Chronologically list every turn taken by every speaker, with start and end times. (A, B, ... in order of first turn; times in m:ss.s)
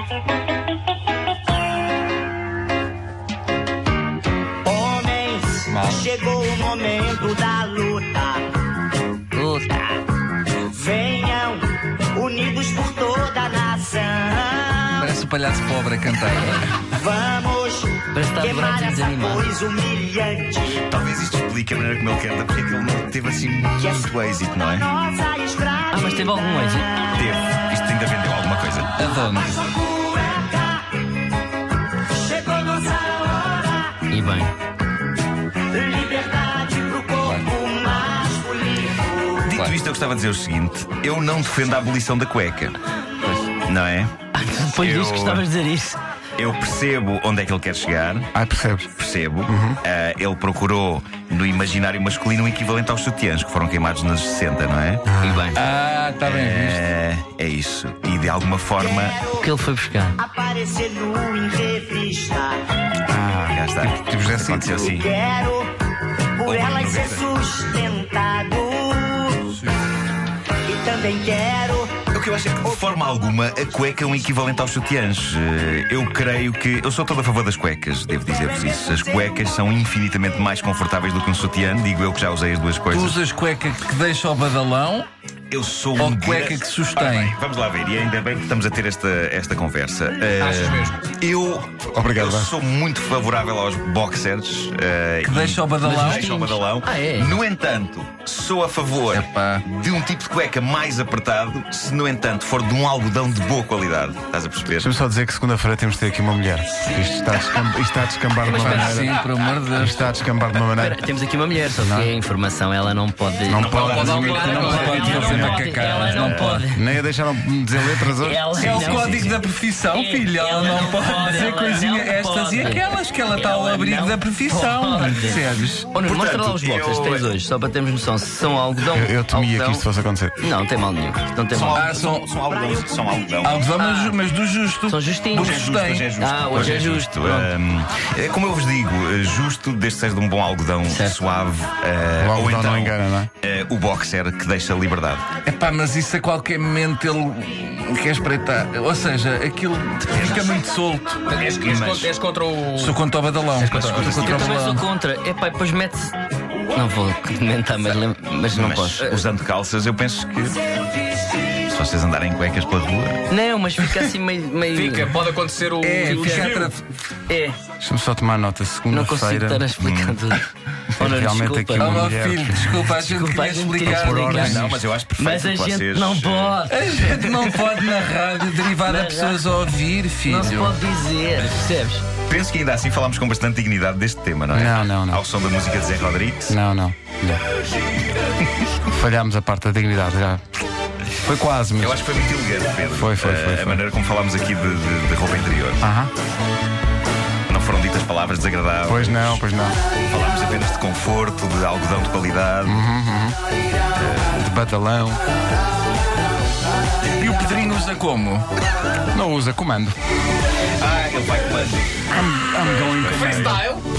0:04.6-0:08.4 A
0:05.7-0:06.1 B
0:09.3-0:10.0 C
0:10.6-0:15.1 A
0:14.9-0:16.8 B
0:16.9-0:20.8 A
0:18.1-0:19.4 C
0:20.7-0:24.9 D
0:23.8-0:27.0 A
0:25.9-0:26.9 C
0:27.1-0:29.0 D
0:29.0-0:29.6 B
0:29.2-0:31.1 A
0:32.0-0:34.0 A
0:34.1-0:34.5 C
0:35.6-0:39.4 A
0:37.2-0:37.5 B
0:39.4-0:42.8 D
0:43.2-0:43.5 B
0:43.6-0:44.2 D
0:44.3-0:46.0 C
0:44.7-0:45.5 D
0:46.4-0:48.3 D
0:48.3-0:48.9 E
0:49.0-0:55.0 D
0:49.5-0:49.8 E
0:55.1-0:55.4 E
0:55.2-0:55.6 C
0:55.5-0:56.8 B
0:56.2-0:59.2 D
0:58.8-0:59.5 A
0:59.3-1:00.2 C
1:00.2-1:02.6 A
1:03.1-1:04.8 E
1:03.5-1:05.1 D
1:04.8-1:05.7 A
1:06.3-1:09.5 A
1:06.4-1:07.2 D
1:10.6-1:12.0 A
1:12.0-1:23.2 D
1:22.9-1:25.1 B
1:25.5-1:44.9 D
1:26.0-1:27.3 B
1:30.4-1:31.0 F
1:31.9-1:32.5 E
1:35.2-1:36.2 B
1:35.8-1:37.4 C
1:39.1-1:39.6 B
1:44.8-1:49.2 E
1:48.4-1:49.2 C
1:48.6-1:50.1 B
1:49.8-1:51.0 E
1:50.5-1:56.8 C
1:51.7-1:52.1 E
1:53.5-1:55.7 E
1:53.5-1:54.3 D
1:53.6-1:55.5 F
1:54.6-1:56.6 B
1:56.1-1:56.6 D
1:56.7-1:59.1 E
1:58.2-2:09.8 C
1:58.5-2:05.9 B
2:06.0-2:07.4 D
2:08.9-2:10.3 E
2:10.4-2:12.1 C
2:11.5-2:13.7 D
2:11.7-2:12.3 B
2:12.5-2:13.1 A
2:13.4-2:16.9 B
2:13.8-2:14.1 C
2:14.9-2:17.5 C
2:15.3-2:25.2 D
2:20.9-2:21.2 C
2:22.2-2:23.3 E
2:25.4-2:31.2 B
2:30.1-2:30.6 D
2:31.2-2:34.1 F
2:31.4-2:32.1 D
2:32.7-2:34.8 B
2:33.6-2:34.6 D
2:34.0-2:36.1 C
2:36.7-2:39.2 C
2:38.5-2:40.6 D
2:41.6-2:43.2 D
2:43.3-2:45.2 C
2:44.7-2:46.7 F
2:45.8-2:46.8 B
2:47.3-2:47.6 C
2:47.8-2:49.7 E
2:48.9-2:50.4 C
2:49.8-2:50.2 D
2:51.0-2:52.8 E
2:51.0-2:52.2 C
2:51.8-2:54.6 B
2:52.9-2:54.6 C
2:53.8-2:54.8 E
2:54.4-2:56.6 D
2:55.2-2:57.8 C
2:56.6-3:00.8 B
2:58.8-2:59.5 C
3:00.2-3:02.0 C
3:02.3-3:06.6 D
3:04.5-3:05.2 E
3:06.5-3:07.4 E
3:08.8-3:10.4 E
3:11.2-3:12.0 E
3:11.8-3:15.8 D
3:12.9-3:13.8 E
3:15.8-3:16.1 E
3:17.5-3:19.4 D
3:18.8-3:19.8 E
3:20.0-3:22.8 D
3:22.6-3:23.4 E
3:24.0-3:24.4 D
3:24.3-3:25.2 E
3:27.2-3:28.5 B
3:29.1-3:29.9 E
3:30.8-3:33.4 D
3:32.1-3:33.7 E
3:33.0-3:33.8 F